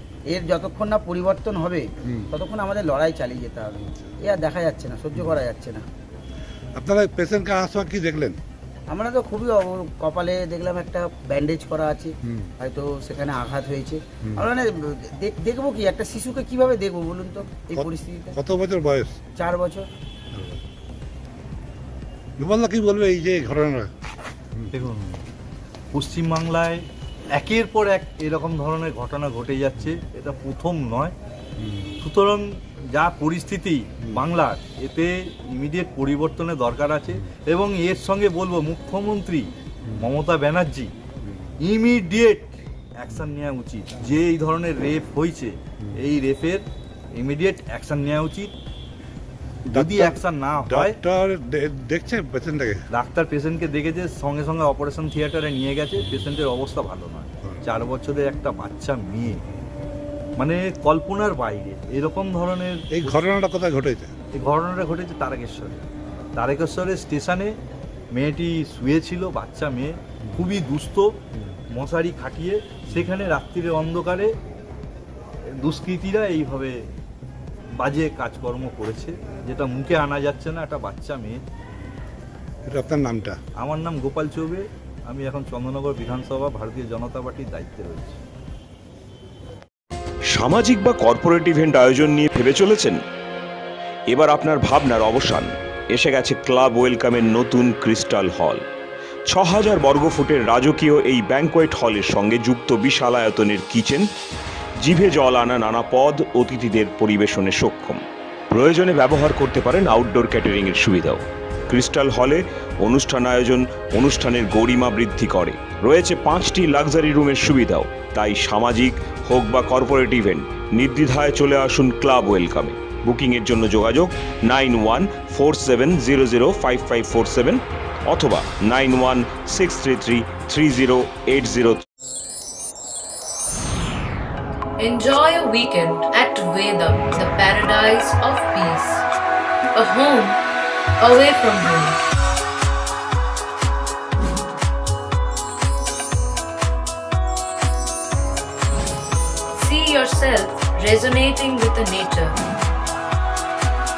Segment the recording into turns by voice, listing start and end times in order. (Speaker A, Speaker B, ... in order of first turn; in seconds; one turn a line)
Speaker A: 0.3-5.8
Speaker B: 6.8-8.4
Speaker A: 8.9-18.4
Speaker B: 12.3-12.5
Speaker B: 17.7-19.2
Speaker A: 19.4-19.9
Speaker B: 20.3-20.6
Speaker B: 22.4-23.9
Speaker C: 24.7-25.2
Speaker C: 25.9-31.1
Speaker B: 31.6-31.9
Speaker C: 32.0-40.9
Speaker C: 41.6-48.5
Speaker C: 49.7-51.0
Speaker B: 49.7-52.9
Speaker C: 52.9-59.4
Speaker C: 60.4-63.3
Speaker B: 62.9-64.1
Speaker C: 64.3-65.8
Speaker C: 66.4-67.5
Speaker C: 68.1-71.2
Speaker C: 71.7-74.3
Speaker C: 75.6-76.8
Speaker C: 77.8-81.4
Speaker B: 82.7-83.4
Speaker C: 83.6-88.2
Speaker D: 90.3-93.0
Speaker D: 94.1-98.6
Speaker D: 99.3-104.1
Speaker D: 104.8-108.0
Speaker D: 108.5-131.8
Speaker E: 134.8-139.1
Speaker E: 139.7-140.4
Speaker E: 141.0-142.0
Speaker E: 149.5-152.4